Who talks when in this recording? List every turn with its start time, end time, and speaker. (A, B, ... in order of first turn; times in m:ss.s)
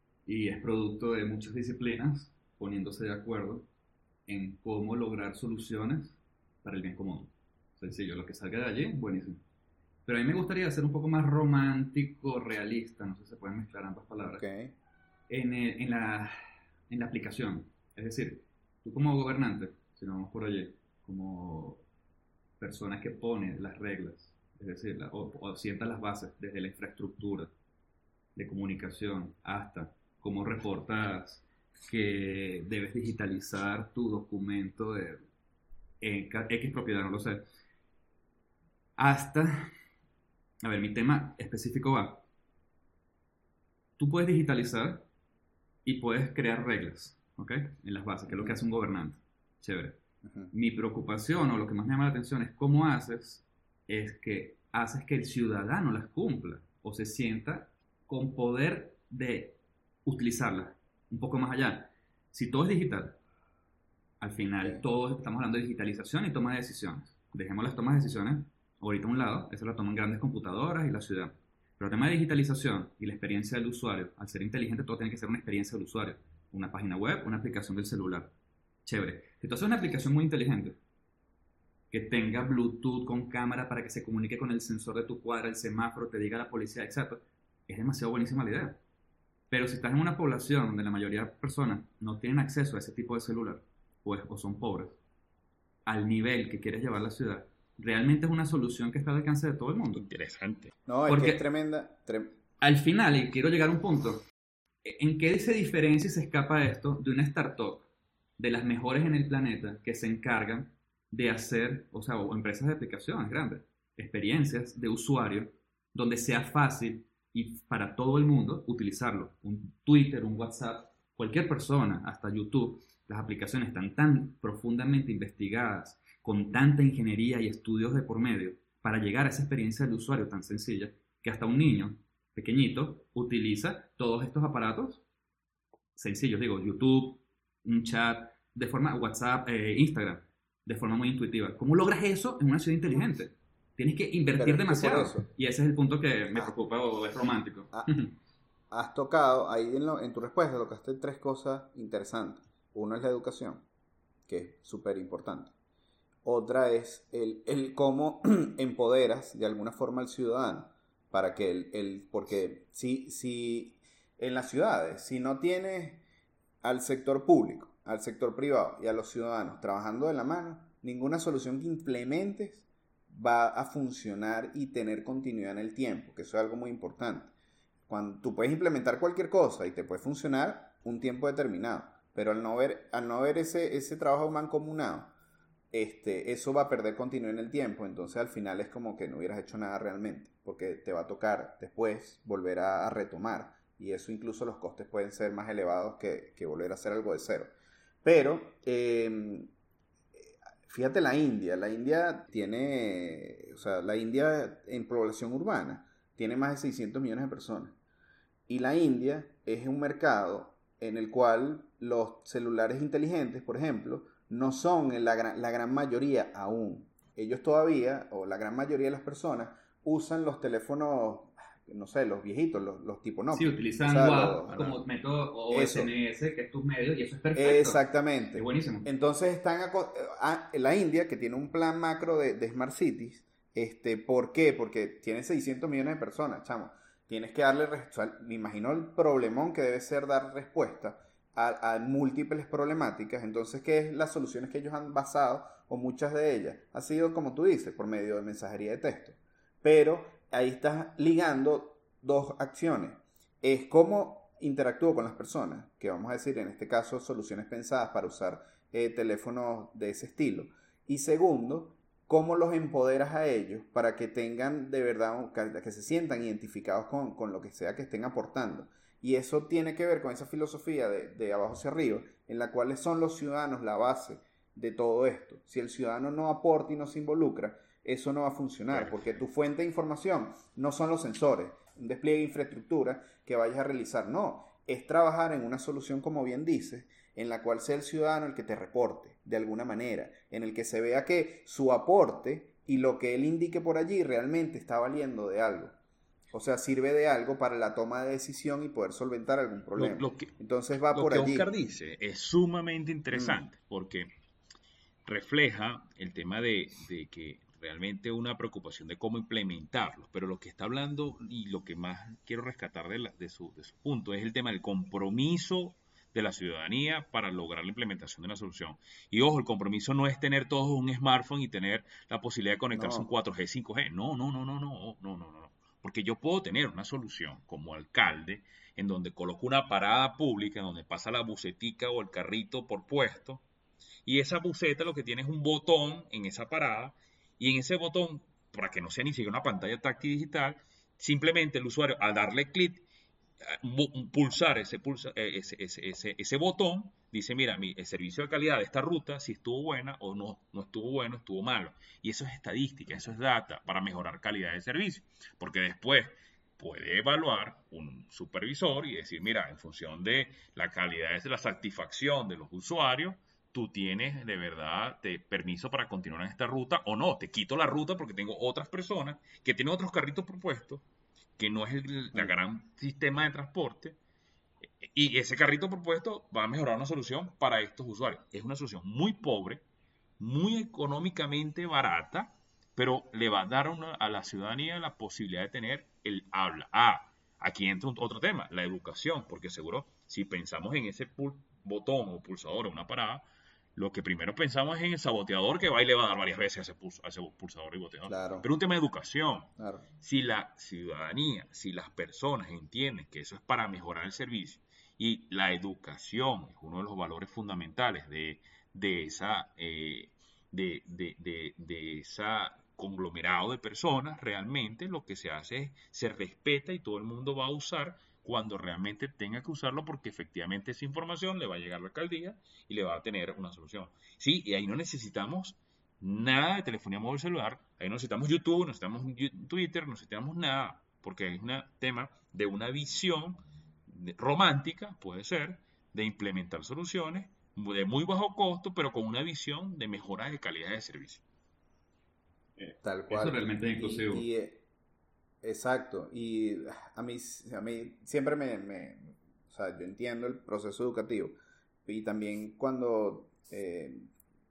0:00.2-0:03.7 A
0:04.3-0:09.4 A
0:10.0-0:14.4 A
0:14.3-0:14.8 B
0:15.3-0:16.3 A
0:16.9-0:21.8 A
0:22.6-0:27.5 A
0:28.4-0:35.2 A
0:36.0-0:37.5 A
0:39.0-0:39.7 A
0:40.6-0:42.2 A
0:44.0-0:45.0 A
0:45.8-1:03.2 A
0:48.3-0:48.6 B
0:50.2-0:50.5 B
1:04.2-1:18.3 A
1:18.8-1:20.8 A
1:21.9-1:28.8 A
1:29.5-1:35.0 A
1:35.8-1:40.0 A
1:39.9-1:40.7 C
1:40.8-1:42.4 B
1:41.1-1:41.4 A
1:42.6-1:44.2 A
1:44.8-1:47.9 A
1:48.4-2:15.0 A
2:16.0-2:28.1 A
2:24.3-2:25.3 B
2:27.7-2:28.0 B
2:28.7-2:33.6 B
2:34.3-2:35.5 B
2:36.2-2:46.0 B
2:46.6-2:57.3 B
2:57.9-3:05.1 B
3:05.7-3:17.5 B
3:18.0-3:19.5 B
3:20.2-3:27.8 B
3:28.5-3:44.8 B
3:43.3-3:47.8 A
3:45.5-3:45.9 B
3:47.4-4:55.7 B
3:48.3-3:48.9 A
4:38.7-4:39.1 C
4:56.3-5:01.5 B
4:59.8-5:00.3 C
5:00.9-5:04.1 C
5:03.1-5:03.4 B
5:05.0-5:33.4 C
5:22.7-5:23.1 B
5:34.0-5:42.9 C
5:43.4-6:10.8 C
6:11.4-6:14.0 C
6:14.8-6:19.6 C
6:20.2-6:33.2 C
6:33.8-7:21.2 C
6:38.1-6:38.5 B
6:39.6-6:39.8 B
7:22.6-7:24.2 A
7:22.8-7:24.6 B
7:25.4-7:31.3 B
7:31.8-7:34.1 B